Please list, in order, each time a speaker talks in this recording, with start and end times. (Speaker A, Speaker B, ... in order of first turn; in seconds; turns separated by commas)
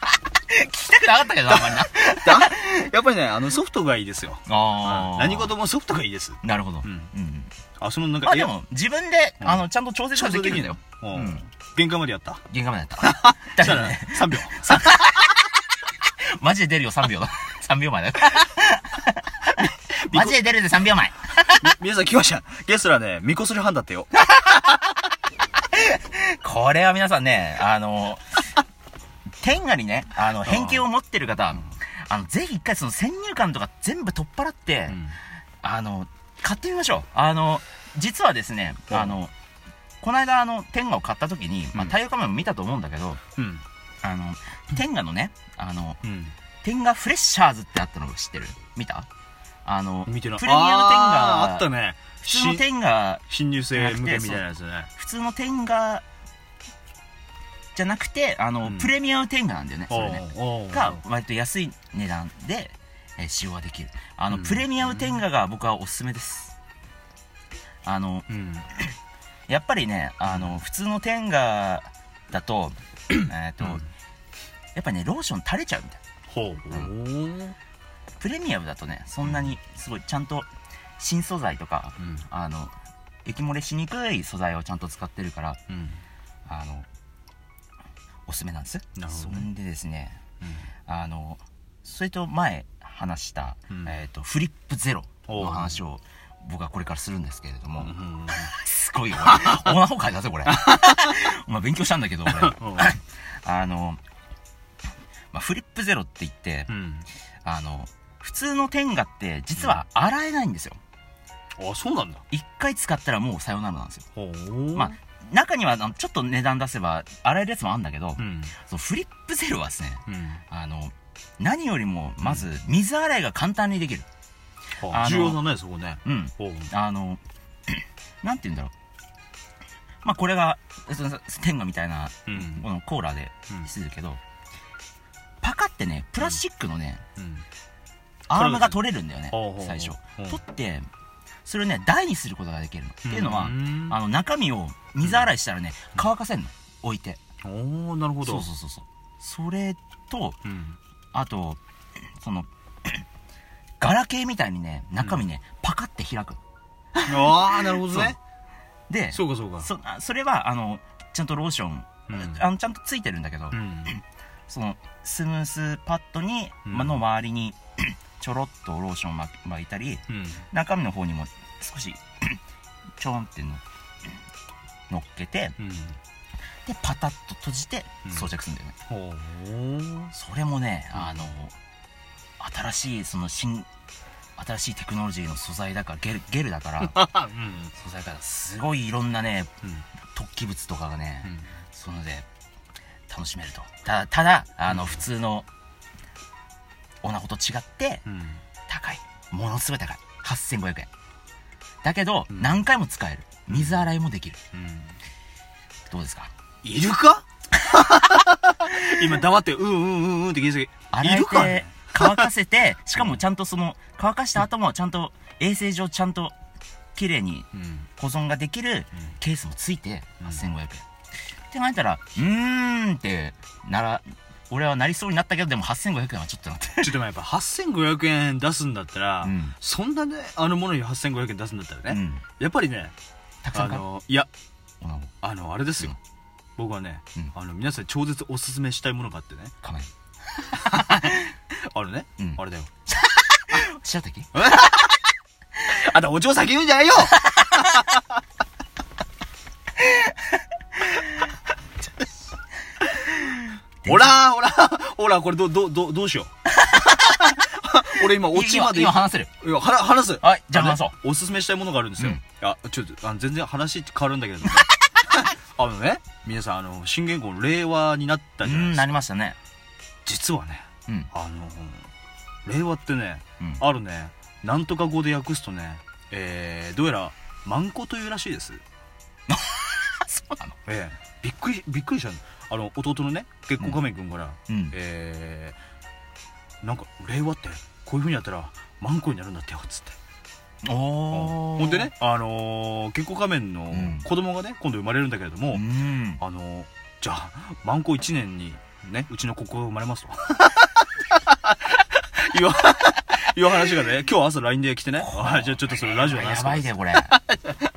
Speaker A: 0.5-2.7, Speaker B: 1.5-7.1, Speaker A: 4.5-5.6, Speaker A: 6.4-7.5, Speaker B: 7.8-8.5, Speaker A: 8.2-11.4, Speaker B: 9.4-12.4, Speaker A: 12.5-15.5, Speaker B: 13.0-15.0, Speaker A: 16.0-19.4, Speaker B: 19.6-20.4, Speaker A: 20.1-21.6, Speaker B: 21.4-24.2, Speaker A: 24.4-24.6, Speaker A: 25.7-28.4, Speaker A: 29.4-35.0, Speaker B: 30.4-30.9, Speaker B: 34.9-35.2, Speaker A: 35.6-39.3, Speaker B: 38.9-39.1, Speaker A: 40.0-43.2, Speaker B: 43.4-43.6, Speaker A: 44.0-46.0, Speaker B: 46.0-46.3, Speaker A: 46.6-49.1, Speaker A: 49.6-51.7, Speaker B: 50.1-52.7, Speaker A: 52.2-54.4, Speaker B: 53.3-54.9, Speaker A: 55.0-56.0, Speaker A: 57.7-66.5, Speaker B: 58.6-58.9, Speaker B: 59.9-61.0, Speaker B: 64.3-65.2, Speaker A: 67.8-68.3, Speaker B: 68.3-68.7, Speaker A: 69.5-73.8, Speaker B: 73.6-73.9, Speaker A: 74.8-76.0, Speaker B: 76.3-77.6, Speaker A: 78.2-80.5, Speaker A: 81.0-82.7, Speaker B: 82.0-82.3, Speaker A: 83.2-85.6, Speaker B: 85.7-86.0, Speaker A: 86.5-86.9, Speaker A: 88.3-90.2, Speaker B: 89.0-89.5, Speaker A: 90.9-104.0, Speaker B: 95.3-95.8, Speaker B: 97.8-98.5, Speaker B: 99.3-99.7, Speaker B: 100.6-101.1, Speaker B: 102.3-103.0, Speaker A: 105.3-106.7, Speaker B: 106.7-107.1, Speaker A: 107.4-110.8, Speaker B: 109.6-109.8, Speaker B: 111.6-112.2, Speaker A: 112.3-114.0, Speaker B: 114.2-115.0, Speaker A: 114.8-124.1, Speaker B: 118.2-118.5, Speaker B: 120.1-120.4, Speaker B: 122.2-122.5, Speaker B: 124.8-126.7, Speaker A: 124.8-125.4, Speaker A: 126.0-128.7, Speaker A: 130.0-134.2, Speaker B: 132.3-132.7, Speaker A: 135.4-137.0, Speaker B: 137.2-137.5, Speaker A: 138.3-140.9, Speaker B: 138.3-138.8, Speaker B: 139.3-140.4, Speaker A: 141.4-147.2, Speaker B: 143.0-144.0, Speaker B: 145.0-145.3, Speaker B: 147.4-148.5, Speaker A: 148.2-150.4, Speaker B: 150.4-150.8, Speaker A: 151.1-151.6, Speaker A: 152.2-153.0, Speaker A: 153.8-156.4, Speaker A: 157.0-158.2, Speaker B: 157.1-158.2, Speaker A: 158.9-172.4, Speaker B: 159.1-159.7, Speaker B: 162.1-162.4, Speaker B: 163.5-164.0, Speaker B: 166.7-167.0, Speaker B: 170.1-170.5, Speaker A: 173.0-173.6, Speaker A: 174.9-175.6, Speaker B: 175.6-176.0, Speaker A: 176.7-178.7, Speaker B: 178.9-180.1, Speaker A: 180.1-181.5, Speaker B: 180.9-181.3, Speaker A: 182.4-183.7, Speaker A: 184.4-187.1, Speaker B: 186.8-187.7, Speaker A: 187.8-189.5, Speaker A: 190.1-192.3, Speaker B: 191.3-191.5, Speaker A: 193.1-195.5, Speaker B: 194.7-195.0, Speaker A: 197.0-198.0, Speaker B: 198.1-198.4, Speaker A: 198.7-200.9, Speaker A: 201.8-204.4, Speaker B: 202.3-202.6, Speaker B: 203.5-203.9, Speaker B: 204.5-204.9, Speaker A: 205.9-206.3, Speaker B: 206.6-212.3, Speaker A: 210.9-216.3, Speaker A: 216.9-220.8, Speaker B: 217.5-217.9, Speaker A: 221.5-227.0, Speaker B: 226.8-232.9, Speaker A: 229.2-229.6, Speaker A: 231.9-232.2, Speaker A: 233.4-233.8, Speaker B: 233.5-234.3, Speaker A: 234.8-235.1, Speaker B: 235.2-236.0, Speaker B: 236.6-239.5, Speaker A: 239.6-239.9, Speaker B: 240.5-242.7, Speaker A: 242.2-244.3, Speaker B: 244.3-248.0, Speaker A: 247.2-247.8, Speaker A: 253.8-254.2, Speaker B: 253.8-256.3, Speaker A: 256.7-256.9, Speaker B: 256.9-268.9, Speaker A: 258.1-259.3, Speaker A: 260.2-260.9, Speaker A: 268.4-269.4, Speaker B: 270.1-271.9, Speaker B: 272.4-278.6, Speaker A: 279.3-280.6, Speaker B: 280.7-285.6, Speaker A: 284.5-284.8, Speaker B: 286.6-290.0, Speaker A: 290.6-291.9, Speaker B: 291.1-307.6, Speaker A: 293.7-294.1, Speaker A: 295.5-296.2, Speaker A: 305.0-307.2